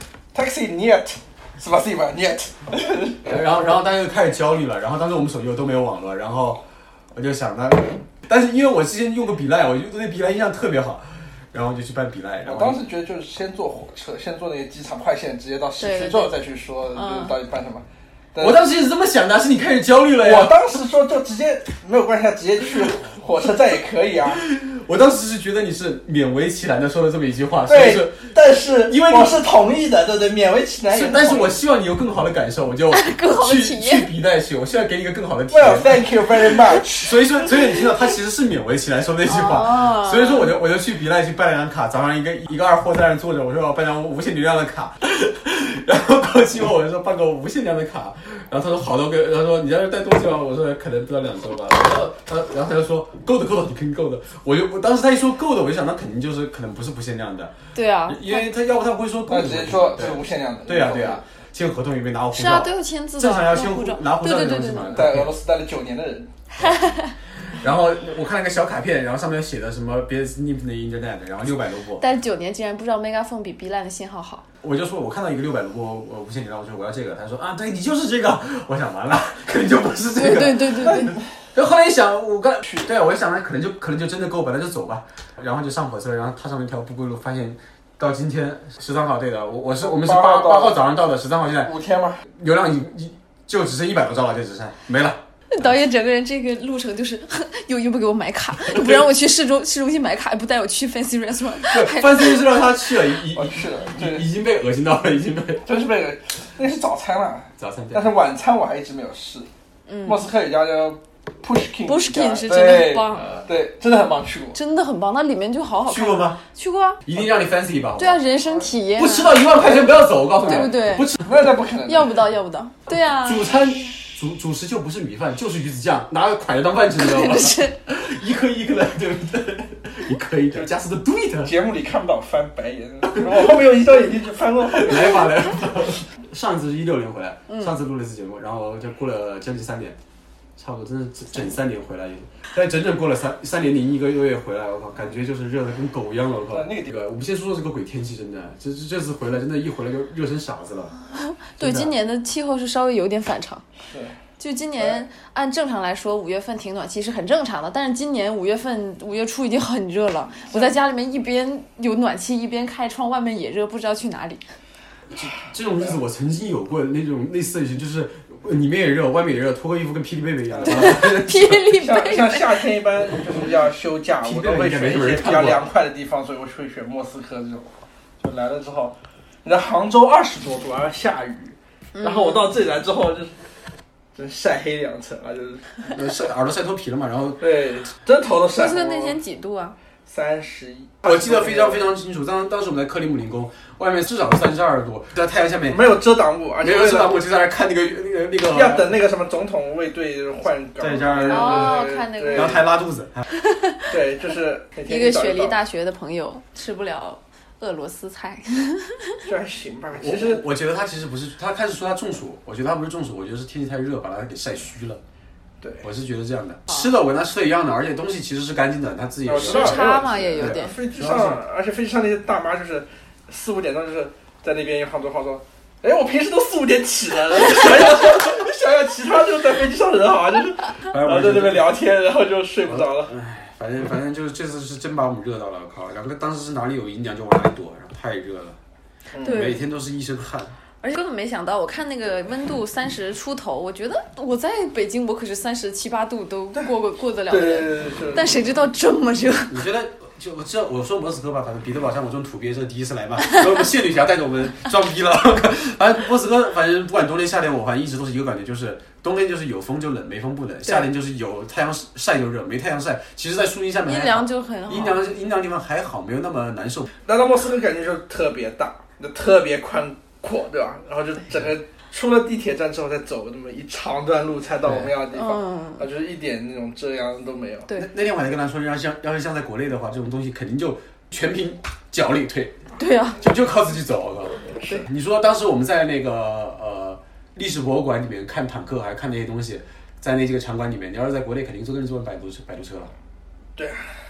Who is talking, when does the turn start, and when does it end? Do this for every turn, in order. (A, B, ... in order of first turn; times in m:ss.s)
0:00.3-0:03.3 A
0:03.2-0:12.8 B
0:12.4-0:18.6 A
0:15.8-0:16.3 C
0:16.9-0:17.3 C
0:18.4-0:20.5 B
0:20.2-0:24.4 A
0:24.3-0:28.3 B
0:27.7-0:31.6 A
0:28.8-0:29.4 B
0:30.9-0:57.5 B
0:32.9-0:34.1 C
0:35.5-0:37.3 A
0:39.2-0:40.5 C
0:57.7-0:58.5 C
0:58.0-1:05.3 B
0:59.3-1:01.2 A
1:02.3-1:05.0 C
1:04.9-1:06.3 A
1:06.6-1:12.0 B
1:06.6-1:07.1 C
1:12.0-1:14.4 C
1:14.6-1:31.7 B
1:20.2-1:21.1 C
1:20.9-1:21.2 A
1:29.8-1:30.8 A
1:31.6-1:32.2 A
1:32.3-1:35.8 B
1:35.5-1:42.4 C
1:41.6-1:45.6 B
1:43.3-1:44.2 A
1:45.6-1:49.5 A
1:47.6-1:48.1 B
1:49.9-1:50.2 C
1:50.0-1:54.6 A
1:51.9-1:53.3 C
1:54.5-1:57.0 C
1:55.8-1:56.4 B
1:57.0-1:58.2 B
1:58.0-1:59.4 C
1:59.0-2:01.3 B
1:59.6-2:00.7 A
2:00.4-2:01.1 C
2:01.2-2:02.2 A
2:01.9-2:03.5 C
2:03.1-2:11.5 B
2:06.9-2:07.8 C
2:11.4-2:15.8 A
2:13.1-2:13.4 B
2:14.8-2:20.0 B
2:17.5-2:17.7 C
2:20.6-2:31.0 B
2:26.5-2:27.0 A
2:31.3-2:33.6 C
2:31.6-2:31.9 B
2:33.9-2:34.1 A
2:34.4-2:44.4 C
2:45.1-2:51.7 B
2:50.5-2:51.1 A
2:50.6-2:52.4 C
2:51.8-3:03.3 A
2:54.2-2:55.6 B
3:01.9-3:02.5 C
3:04.1-3:05.8 A
3:05.9-3:07.4 B
3:07.4-3:09.2 A
3:08.5-3:09.8 C
3:10.1-3:11.8 A
3:11.0-3:16.0 B
3:15.7-3:17.2 A
3:16.6-3:19.0 B
3:18.5-3:22.6 A
3:20.8-3:23.2 B
3:21.3-3:22.6 C
3:23.4-3:23.9 C
3:23.9-3:25.6 A
3:24.9-3:29.2 C
3:29.2-3:30.4 A
3:29.9-3:35.0 B
3:35.6-3:35.9 A
3:35.8-3:41.4 B
3:39.2-3:53.1 A
3:39.4-3:40.8 C
3:50.9-3:51.7 B
3:52.6-3:58.6 B
3:59.1-3:59.5 A
3:59.2-3:59.6 C
3:59.2-4:00.6 B
4:00.8-4:09.6 C
4:07.3-4:08.4 A
4:09.5-4:26.9 B
4:23.8-4:25.0 C
4:27.0-4:37.7 A
4:34.6-4:34.9 B
4:35.1-4:35.8 C
4:37.8-4:42.6 B
4:42.8-4:43.2 C
4:43.2-4:52.9 B
4:53.6-4:53.9 A